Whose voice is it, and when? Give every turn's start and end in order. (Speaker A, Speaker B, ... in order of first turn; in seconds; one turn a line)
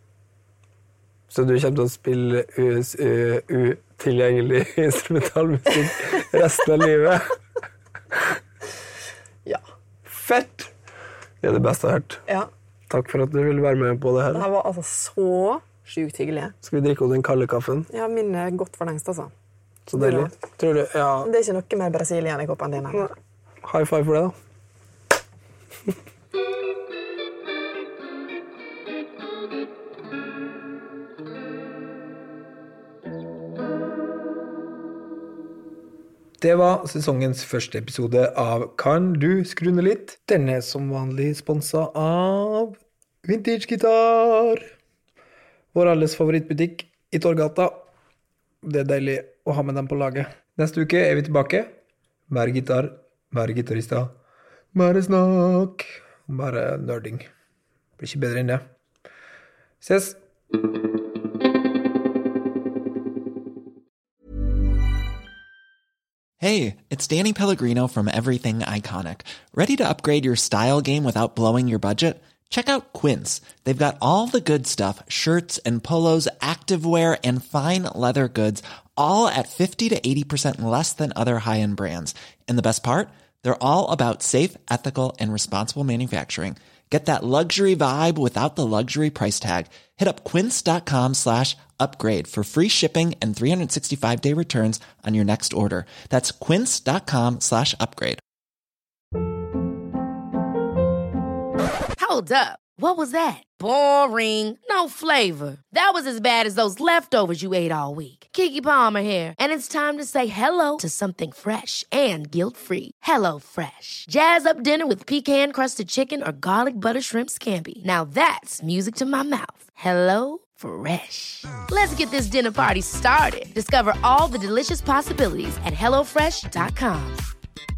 Speaker A: 1.3-7.3
Speaker A: 10.1-10.7
Speaker A: 11.4-12.2
Speaker A: 12.9-14.4
Speaker B: 14.3-16.5
Speaker A: 16.6-17.9
Speaker B: 17.9-19.3
Speaker A: 19.9-21.3
Speaker B: 19.9-20.3
Speaker B: 21.2-23.1
Speaker A: 23.6-24.3
Speaker C: 36.4-44.7
Speaker C: 45.7-47.9
Speaker C: 48.6-51.7
Speaker C: 52.3-54.2
Speaker C: 54.7-57.3
Speaker C: 58.0-58.6
Speaker C: 59.8-60.2
Speaker D: 66.4-98.2
Speaker E: 102.0-127.2